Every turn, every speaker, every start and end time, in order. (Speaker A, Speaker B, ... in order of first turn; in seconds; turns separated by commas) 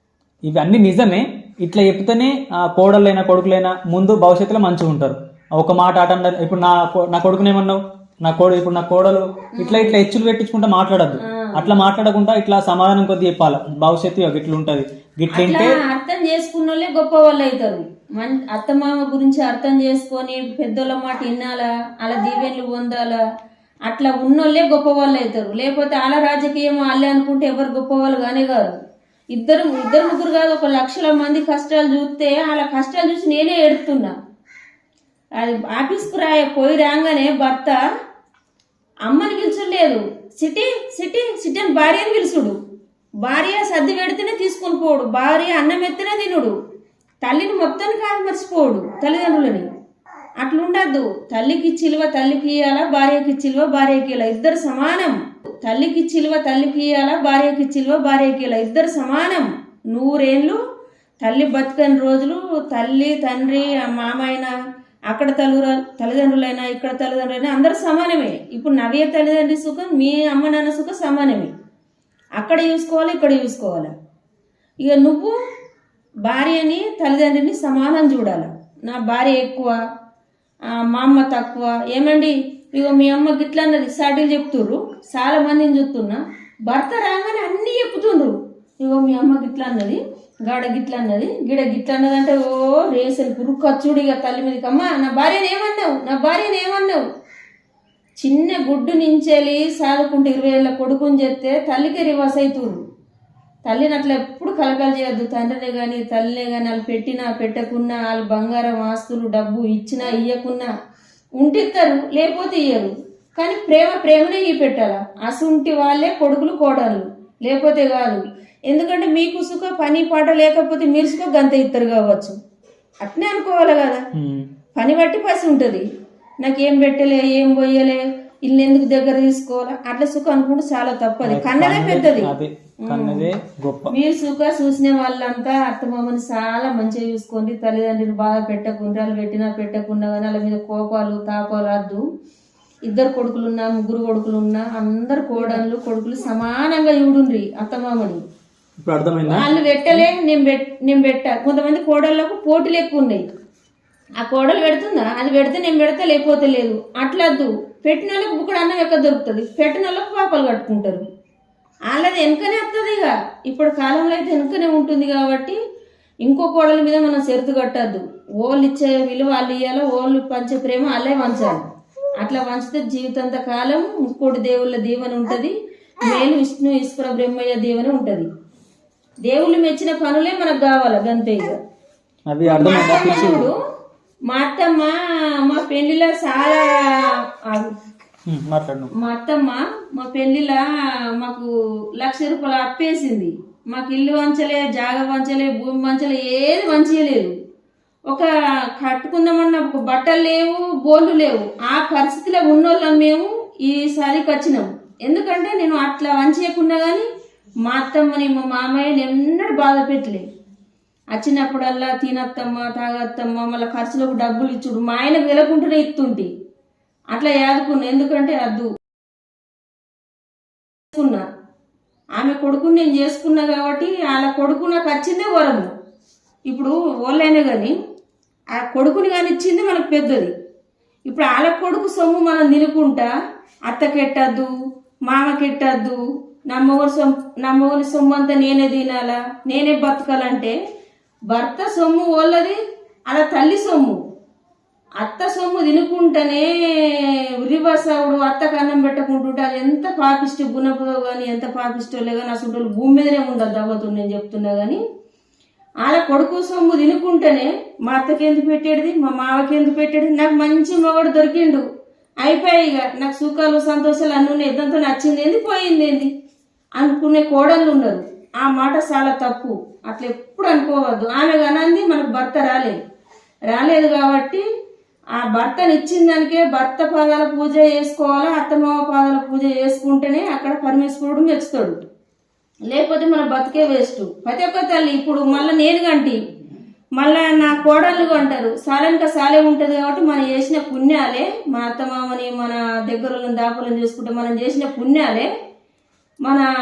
Speaker A: 0.5-15.8, Speaker B: 9.6-10.0, Speaker B: 11.3-11.7, Speaker B: 15.3-23.2, Speaker B: 23.9-28.8, Speaker B: 29.3-34.1, Speaker B: 35.4-37.8, Speaker B: 39.1-42.5, Speaker B: 43.2-46.5, Speaker B: 47.2-49.7, Speaker B: 50.4-60.6, Speaker B: 61.2-64.5, Speaker B: 65.1-71.5, Speaker B: 72.4-73.9, Speaker B: 74.8-75.3, Speaker B: 76.2-79.8, Speaker B: 80.7-97.0, Speaker B: 98.2-102.8, Speaker B: 103.7-110.7, Speaker B: 111.4-122.4, Speaker B: 123.0-124.0, Speaker A: 124.1-124.5, Speaker B: 124.8-125.9, Speaker B: 126.4-132.3, Speaker A: 131.2-133.9, Speaker B: 132.9-133.3, Speaker B: 133.9-142.0, Speaker B: 142.9-148.2, Speaker A: 148.8-150.1, Speaker B: 149.3-153.2, Speaker B: 154.2-161.0, Speaker B: 161.9-165.6, Speaker B: 166.2-171.6, Speaker B: 172.2-178.3, Speaker B: 179.2-181.6, Speaker A: 182.3-183.5, Speaker B: 182.5-183.6, Speaker B: 184.3-187.7, Speaker A: 188.3-188.9, Speaker B: 189.0-190.6, Speaker B: 191.2-197.3, Speaker B: 198.1-207.1, Speaker B: 207.7-210.2, Speaker B: 211.1-216.3, Speaker B: 217.1-218.7, Speaker B: 220.9-221.2, Speaker B: 222.2-225.7, Speaker B: 226.5-227.8, Speaker B: 228.5-230.3, Speaker B: 231.1-233.1, Speaker B: 233.7-234.5, Speaker B: 235.1-240.6, Speaker B: 241.3-242.6, Speaker B: 243.1-244.0, Speaker B: 245.0-254.8, Speaker B: 255.8-261.6, Speaker B: 262.2-266.1, Speaker B: 266.8-272.8, Speaker B: 273.5-274.4, Speaker B: 275.1-281.8, Speaker B: 282.7-286.2, Speaker B: 287.0-295.3